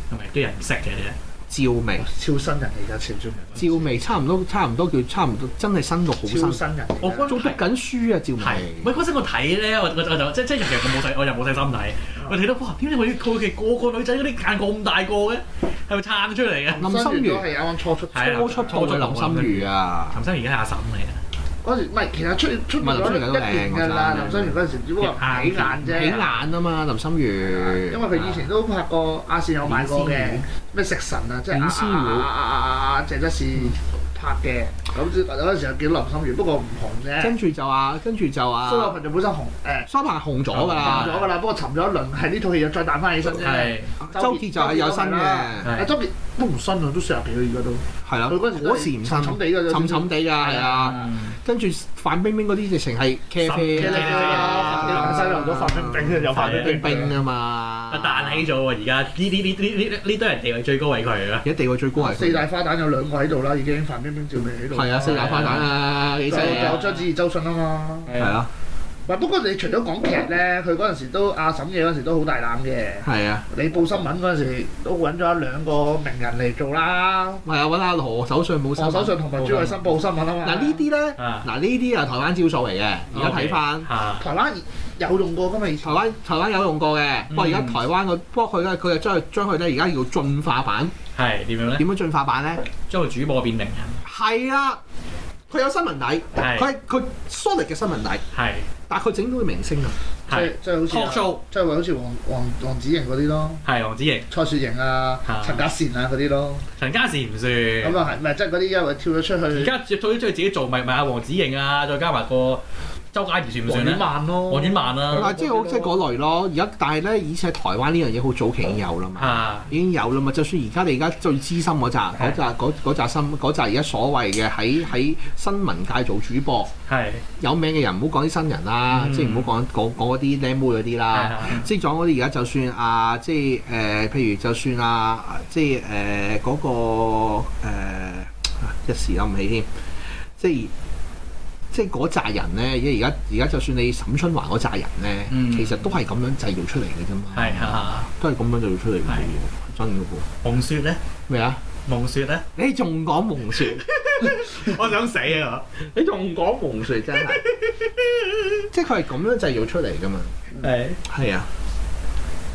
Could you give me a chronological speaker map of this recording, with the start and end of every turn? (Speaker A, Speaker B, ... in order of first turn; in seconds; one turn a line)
Speaker A: 0.1-1.2
Speaker B: 1.5-2.0
Speaker C: 2.0-4.0
Speaker B: 3.6-6.6
Speaker C: 6.2-7.4
Speaker A: 7.0-7.6
Speaker B: 7.2-8.9
Speaker A: 8.4-16.9
Speaker C: 16.7-18.8
Speaker B: 16.8-17.5
Speaker A: 18.1-21.2
Speaker B: 18.2-20.2
Speaker C: 21.6-26.2
Speaker B: 22.8-24.6
Speaker A: 25.0-26.4
Speaker B: 25.8-28.1
Speaker C: 27.5-37.4
Speaker A: 28.1-28.4
Speaker B: 29.6-30.4
Speaker B: 31.5-32.3
Speaker B: 37.2-39.0
Speaker C: 38.6-39.9
Speaker B: 39.9-41.2
Speaker A: 40.5-41.3
Speaker C: 40.8-51.1
Speaker A: 43.4-43.9
Speaker B: 44.0-45.7
Speaker A: 45.6-46.0
Speaker B: 48.0-58.5
Speaker A: 50.8-51.4
Speaker A: 53.4-55.3
Speaker C: 53.7-57.1
Speaker A: 56.3-56.8
Speaker A: 57.9-61.5
Speaker B: 61.4-62.5
Speaker C: 62.0-65.6
Speaker B: 64.7-66.8
Speaker A: 65.0-65.7
Speaker C: 66.3-68.1
Speaker A: 66.3-67.1
Speaker A: 68.1-68.4
Speaker B: 68.2-68.5
Speaker C: 69.1-77.4
Speaker B: 73.0-73.5
Speaker B: 77.5-79.2
Speaker C: 78.8-80.8
Speaker A: 79.4-79.9
Speaker B: 80.4-83.9
Speaker A: 81.2-81.5
Speaker A: 83.1-84.3
Speaker C: 84.2-86.0
Speaker B: 85.8-91.0
Speaker A: 87.3-87.8
Speaker A: 91.1-91.8
Speaker B: 91.8-92.7
Speaker A: 92.9-94.0
Speaker B: 94.0-94.8
Speaker B: 95.5-98.2
Speaker A: 96.4-96.7
Speaker A: 98.3-98.7
Speaker B: 98.9-100.0
Speaker A: 100.3-101.4
Speaker C: 100.3-103.6
Speaker A: 103.7-104.3
Speaker C: 104.3-106.6
Speaker A: 105.3-105.7
Speaker A: 106.8-108.0
Speaker C: 107.8-109.7
Speaker A: 109.5-112.6
Speaker A: 113.1-115.3
Speaker C: 113.7-116.0
Speaker B: 115.1-126.7
Speaker A: 119.2-119.7
Speaker A: 126.9-127.2
Speaker B: 127.4-140.7
Speaker A: 128.9-129.5
Speaker A: 131.1-131.7
Speaker B: 141.7-150.3
Speaker A: 145.3-145.9
Speaker A: 147.3-148.1
Speaker A: 150.4-151.0
Speaker B: 151.3-151.6
Speaker A: 151.9-152.5
Speaker B: 152.6-153.8
Speaker A: 153.6-155.7
Speaker B: 155.9-157.4
Speaker A: 157.2-158.6
Speaker B: 158.7-160.3
Speaker A: 160.6-161.0
Speaker B: 161.1-161.5